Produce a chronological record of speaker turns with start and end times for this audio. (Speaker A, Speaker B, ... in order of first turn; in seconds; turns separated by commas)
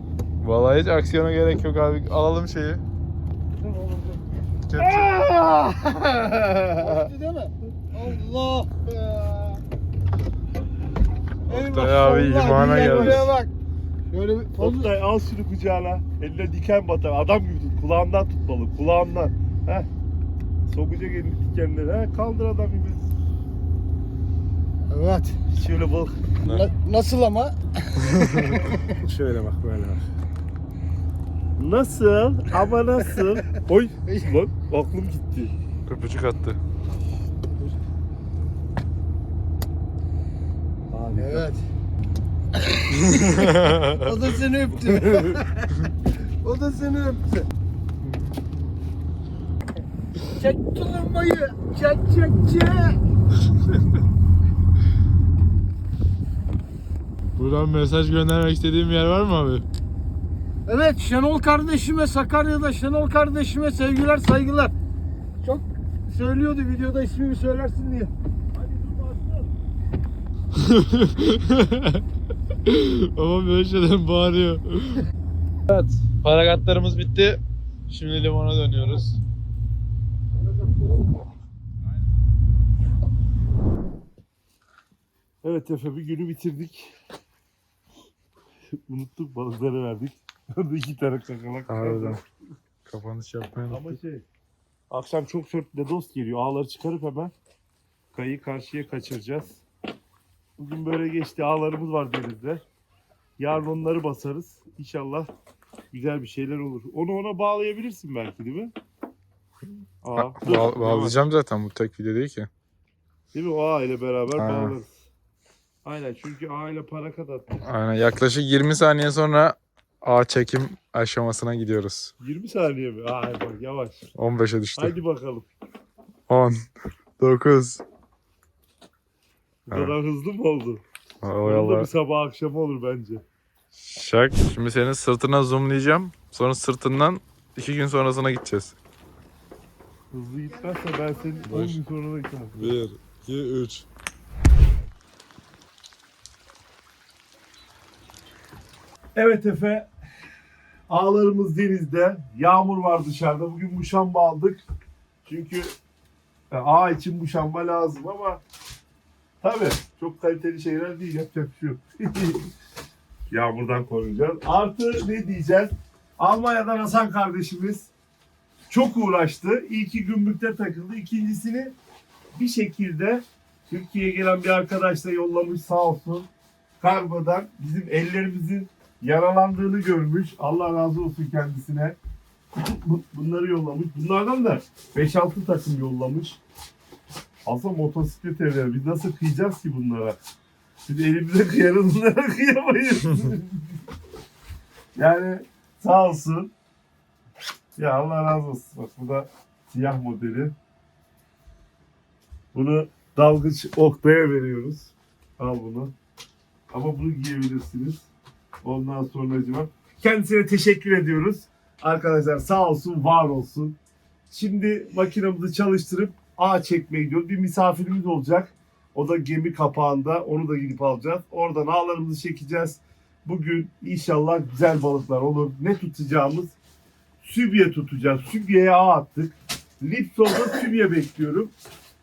Speaker A: 0.4-2.8, Speaker B: 3.6-4.2, Speaker A: 4.7-5.2, Speaker B: 4.8-7.1, Speaker C: 6.8-9.6, Speaker A: 11.5-13.4, Speaker C: 11.5-13.5, Speaker B: 12.5-13.3, Speaker C: 14.1-14.9, Speaker B: 14.6-19.9, Speaker B: 20.7-23.1, Speaker C: 24.9-25.4, Speaker B: 25.5-26.2, Speaker A: 26.4-26.7, Speaker C: 26.4-29.1, Speaker B: 29.0-30.0, Speaker B: 31.6-35.5, Speaker A: 35.9-36.6, Speaker B: 40.9-41.5, Speaker C: 41.2-41.6, Speaker C: 42.6-45.9, Speaker A: 43.1-44.1, Speaker B: 44.9-45.4, Speaker C: 46.4-47.5, Speaker C: 50.3-53.0, Speaker A: 57.4-59.6, Speaker C: 60.7-64.7, Speaker C: 65.4-68.1, Speaker B: 68.5-69.5, Speaker A: 70.6-72.0, Speaker A: 72.7-75.0, Speaker A: 75.7-79.2, Speaker B: 85.4-86.9, Speaker B: 88.7-92.2, Speaker A: 91.7-92.2, Speaker A: 92.8-93.9, Speaker B: 93.7-94.2, Speaker B: 94.9-97.3, Speaker B: 98.1-99.6, Speaker B: 100.6-102.6, Speaker B: 103.4-105.3, Speaker B: 105.9-108.7, Speaker B: 110.0-111.3, Speaker A: 110.1-112.5, Speaker B: 113.3-115.0, Speaker A: 114.3-114.8, Speaker B: 115.8-117.6, Speaker A: 117.6-122.1, Speaker B: 122.2-124.0, Speaker A: 124.1-124.9, Speaker B: 124.8-125.5, Speaker A: 126.3-126.6, Speaker A: 127.2-127.8, Speaker B: 129.7-130.8, Speaker A: 129.7-129.9, Speaker A: 131.2-131.9, Speaker B: 131.4-133.2, Speaker A: 133.7-138.7, Speaker B: 140.1-142.8, Speaker A: 141.5-141.8, Speaker A: 142.5-143.8, Speaker B: 149.1-149.9, Speaker B: 150.9-154.6, Speaker B: 155.2-155.7, Speaker B: 156.5-158.4, Speaker B: 159.4-162.5, Speaker B: 163.3-167.9, Speaker B: 168.7-171.7, Speaker B: 172.3-176.3, Speaker B: 176.8-182.0, Speaker B: 182.6-186.4, Speaker B: 187.4-190.2, Speaker B: 190.9-193.8, Speaker B: 194.9-196.5, Speaker B: 197.8-200.5, Speaker B: 202.5-205.9, Speaker B: 206.7-208.1, Speaker B: 208.6-213.8, Speaker B: 214.3-226.6, Speaker B: 227.2-231.5